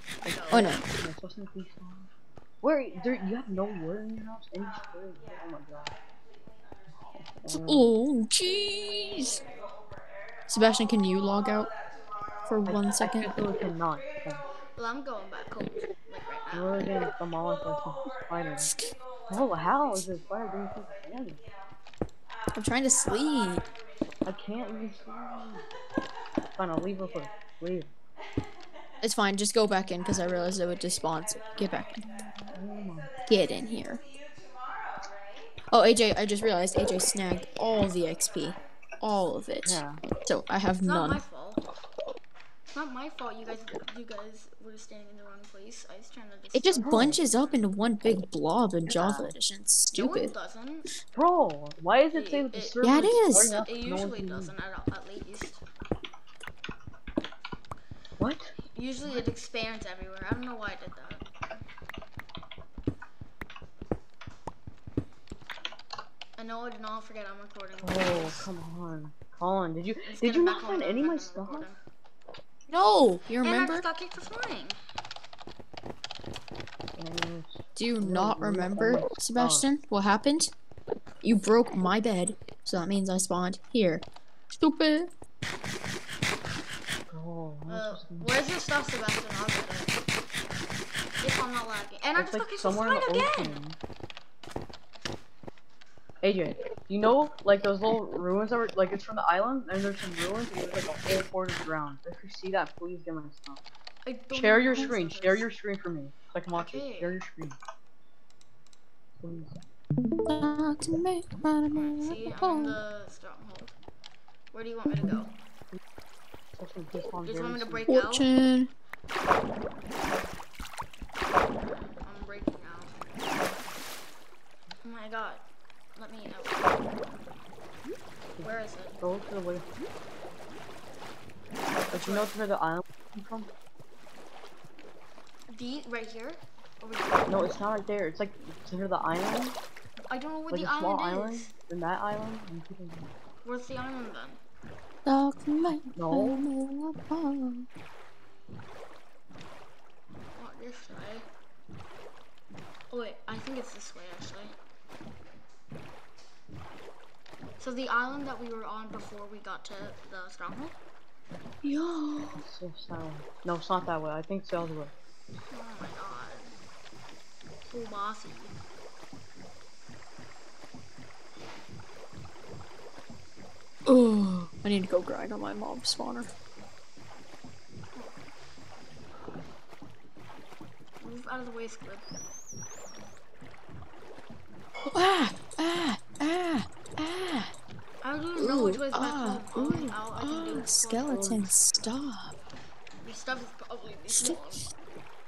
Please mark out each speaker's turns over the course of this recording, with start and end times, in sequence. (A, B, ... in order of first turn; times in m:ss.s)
0:00.2-0:00.8 A
0:00.2-0:02.1 B
0:00.5-0:00.8 C
0:02.6-0:06.0 B
0:07.3-0:07.9 B
0:07.6-0:09.4 C
0:10.5-0:11.7 C
0:12.4-0:13.4 C
0:12.6-0:14.4 B
0:14.8-0:16.9 A
0:16.5-0:18.7 B
0:19.3-0:21.4 B
0:22.5-0:23.6 C
0:24.2-0:25.6 B
0:26.6-0:27.9 B
0:29.0-0:32.2 C
0:32.5-0:33.2 B
0:33.3-0:34.0 C
0:35.7-0:41.2 C
0:39.6-0:40.0 B
0:40.8-0:41.6 A
0:42.7-0:47.6 A
0:46.5-0:50.3 C
0:46.8-0:47.2 B
0:48.9-0:49.3 B
0:50.0-0:50.9 A
0:51.1-0:54.5 B
0:52.1-0:55.6 A
0:52.8-0:53.7 C
0:58.2-0:58.5 B
0:58.7-1:01.2 A
1:06.4-1:08.5 A
1:07.8-1:11.7 B
1:10.1-1:11.8 A
1:12.7-1:13.9 C
1:13.4-1:14.8 A
1:17.0-1:19.7 B
1:17.8-1:20.5 C
1:21.2-1:25.1 C
1:27.1-1:28.3 B
1:27.7-1:29.9 A
1:31.2-1:33.6 A
1:32.2-1:33.8 B
1:36.2-1:43.6 B
1:44.0-1:45.5 A
1:44.3-1:47.6 B
1:46.5-1:47.2 A
1:49.2-1:49.6 B
1:50.2-1:52.8 C
1:51.7-1:53.8 A
1:54.5-1:55.3 A
1:56.6-1:57.9 B
1:57.2-1:58.3 A
1:57.9-1:58.7 C
2:01.7-2:03.0 A
2:04.8-2:05.4 A
2:06.0-2:06.8 A
2:08.4-2:09.7 B
2:08.4-2:09.0 A
2:11.9-2:12.4 A
2:11.9-2:13.5 B
2:15.5-2:17.5 A
2:17.3-2:19.6 B
2:20.1-2:21.5 A
2:20.5-2:23.1 B
2:23.4-2:24.4 A
2:25.0-2:27.7 C
2:25.9-2:26.4 B
2:30.4-2:31.3 A
2:32.9-2:34.6 A
2:37.6-2:40.8 A
2:41.6-2:42.4 C
2:42.4-2:44.9 B
2:45.5-2:46.5 A
2:47.6-2:48.5 A
2:53.9-2:56.3 C
3:01.0-3:02.1 A
3:04.9-3:07.5 C
3:08.0-3:11.4 A
3:08.4-3:12.4 C
3:11.1-3:11.4 B
3:13.0-3:14.7 A
3:14.1-3:14.5 C